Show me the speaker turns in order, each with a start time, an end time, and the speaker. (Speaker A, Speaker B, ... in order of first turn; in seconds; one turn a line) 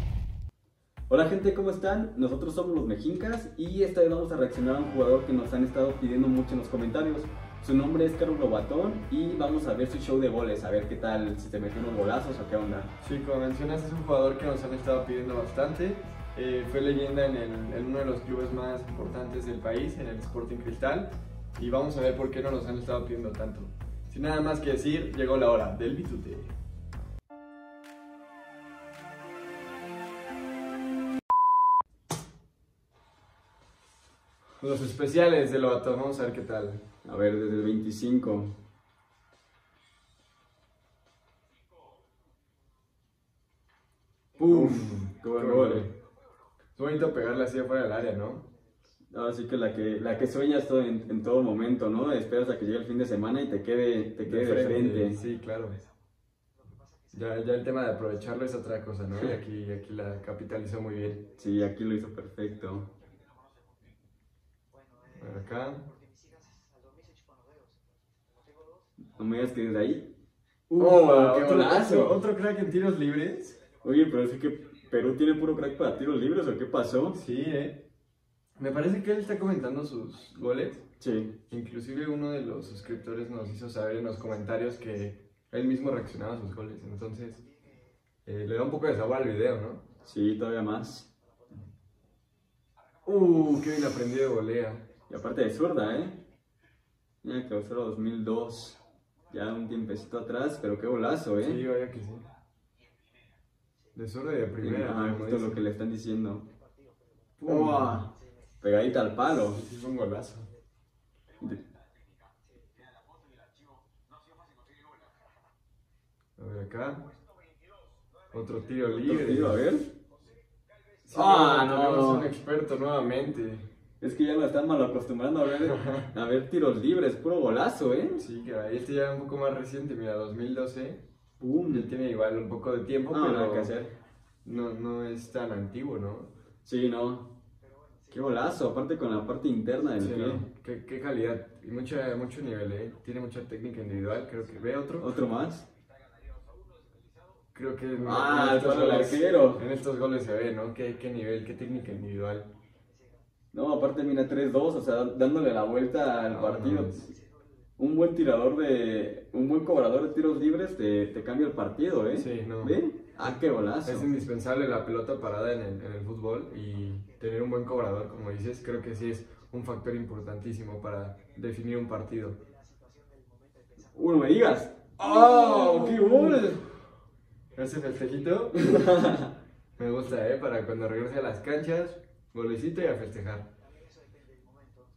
Speaker A: 1.1-12.9
Speaker B: 13.0-26.5
Speaker B: 34.6-36.8
Speaker A: 37.0-38.5
Speaker B: 44.4-45.9
Speaker A: 44.4-45.9
Speaker B: 46.8-48.4
Speaker A: 49.1-55.2
Speaker B: 54.2-55.8
Speaker B: 57.1-61.2
Speaker A: 61.4-62.9
Speaker B: 65.1-65.8
Speaker A: 69.0-70.1
Speaker B: 70.7-73.6
Speaker A: 70.8-72.2
Speaker A: 73.8-77.2
Speaker B: 77.1-77.8
Speaker B: 78.6-80.8
Speaker A: 81.0-81.4
Speaker B: 81.5-87.4
Speaker B: 88.2-89.8
Speaker A: 90.0-91.1
Speaker B: 93.0-94.8
Speaker A: 95.1-96.2
Speaker A: 97.2-98.8
Speaker A: 99.3-101.6
Speaker B: 101.4-102.2
Speaker B: 103.9-105.6
Speaker A: 104.6-106.5
Speaker B: 107.4-108.0
Speaker A: 107.5-109.6
Speaker B: 109.3-110.5
Speaker B: 116.4-117.0
Speaker B: 118.3-119.6
Speaker A: 119.0-119.9
Speaker B: 121.0-123.7
Speaker A: 121.1-122.3
Speaker A: 124.0-128.2
Speaker B: 125.7-126.1
Speaker B: 128.2-131.0
Speaker A: 131.4-131.9
Speaker B: 131.7-133.7
Speaker A: 133.1-133.9
Speaker B: 134.4-136.3
Speaker A: 136.7-137.3
Speaker A: 138.1-140.4
Speaker B: 140.0-145.2
Speaker A: 145.0-145.7
Speaker B: 147.5-152.5
Speaker A: 148.0-149.6
Speaker A: 153.5-157.1
Speaker B: 156.3-157.1
Speaker A: 157.8-164.1
Speaker B: 162.1-172.4
Speaker A: 173.9-176.6
Speaker B: 175.0-176.6
Speaker B: 177.5-179.0
Speaker A: 178.6-179.3
Speaker B: 179.8-183.5